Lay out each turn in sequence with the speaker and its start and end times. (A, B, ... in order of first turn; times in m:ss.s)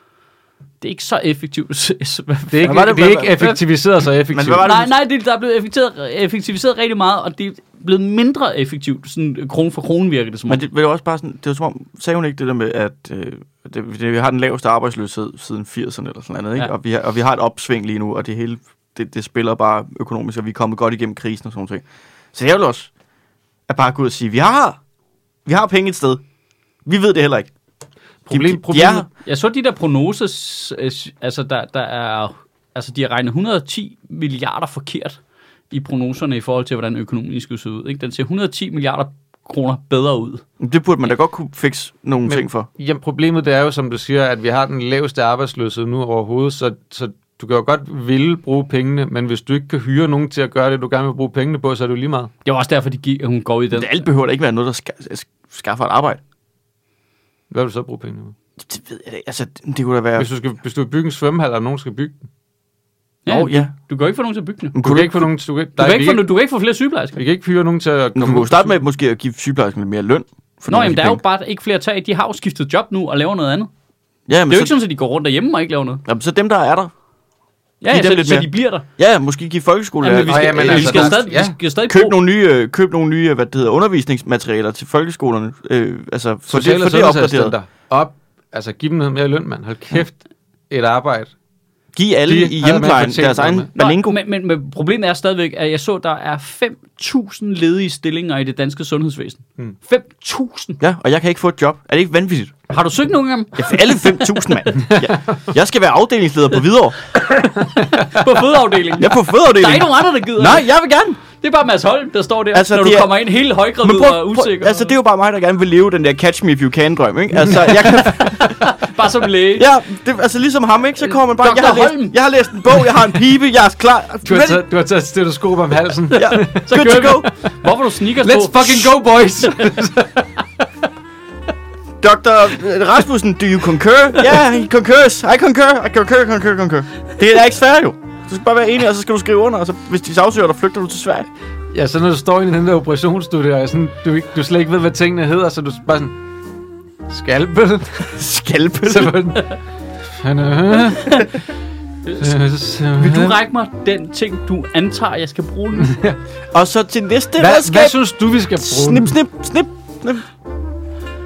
0:00.8-0:03.6 A
0:02.5-0:04.6 B
0:02.6-0:03.6 C
0:04.3-0:04.9 C
0:04.6-0:10.6 A
0:10.5-0:22.9 C
0:23.7-0:24.8 C
0:25.4-0:26.2 C
0:26.8-0:27.5 C
0:28.2-0:29.0 B
0:28.3-0:29.0 C
0:29.2-0:35.2 A
0:35.7-0:40.4 A
0:40.6-0:42.7 C
0:42.3-0:52.3 B
0:52.4-0:54.0 A
0:53.7-0:56.2 C
0:57.5-0:58.3 B
0:58.6-1:00.3 C
1:00.2-1:02.1 B
1:03.2-1:04.7 A
1:03.3-1:03.7 C
1:04.7-1:05.2 C
1:04.8-1:06.2 B
1:05.8-1:07.2 A
1:07.2-1:08.8 B
1:08.2-1:11.2 C
1:10.7-1:13.7 A
1:14.3-1:14.7 C
1:14.5-1:16.0 A
1:16.0-1:16.9 C
1:17.8-1:18.8 A
1:17.9-1:21.2 C
1:20.0-1:22.2 A
1:20.2-1:21.6 B
1:21.9-1:27.5 C
1:26.5-1:31.3 B
1:31.9-1:34.2 C
1:32.3-1:33.7 B
1:33.8-1:40.8 A
1:40.8-1:42.6 C
1:42.7-1:44.6 A
1:43.6-1:47.0 C
1:44.8-1:45.4 B
1:47.3-1:50.7 A
1:49.0-1:51.2 C
1:51.4-1:54.9 A
1:52.5-1:53.1 C
1:53.8-1:58.7 C
1:57.8-1:59.7 A
1:59.6-2:04.6 C
2:01.0-2:02.2 A
2:04.2-2:07.5 B
2:06.1-2:09.7 A
2:06.1-2:07.2 C
2:08.2-2:10.6 B
2:12.0-2:21.3 C
2:21.7-2:26.2 B
2:27.1-2:28.2 B
2:28.1-2:29.2 C
2:28.8-2:29.6 B
2:30.2-2:31.3 B
2:30.8-2:31.3 A
2:32.0-2:32.3 A
2:32.2-2:33.4 B
2:32.9-2:35.9 A
2:35.8-2:36.2 B
2:36.5-2:38.0 C
2:37.4-2:39.2 B
2:38.6-2:40.2 C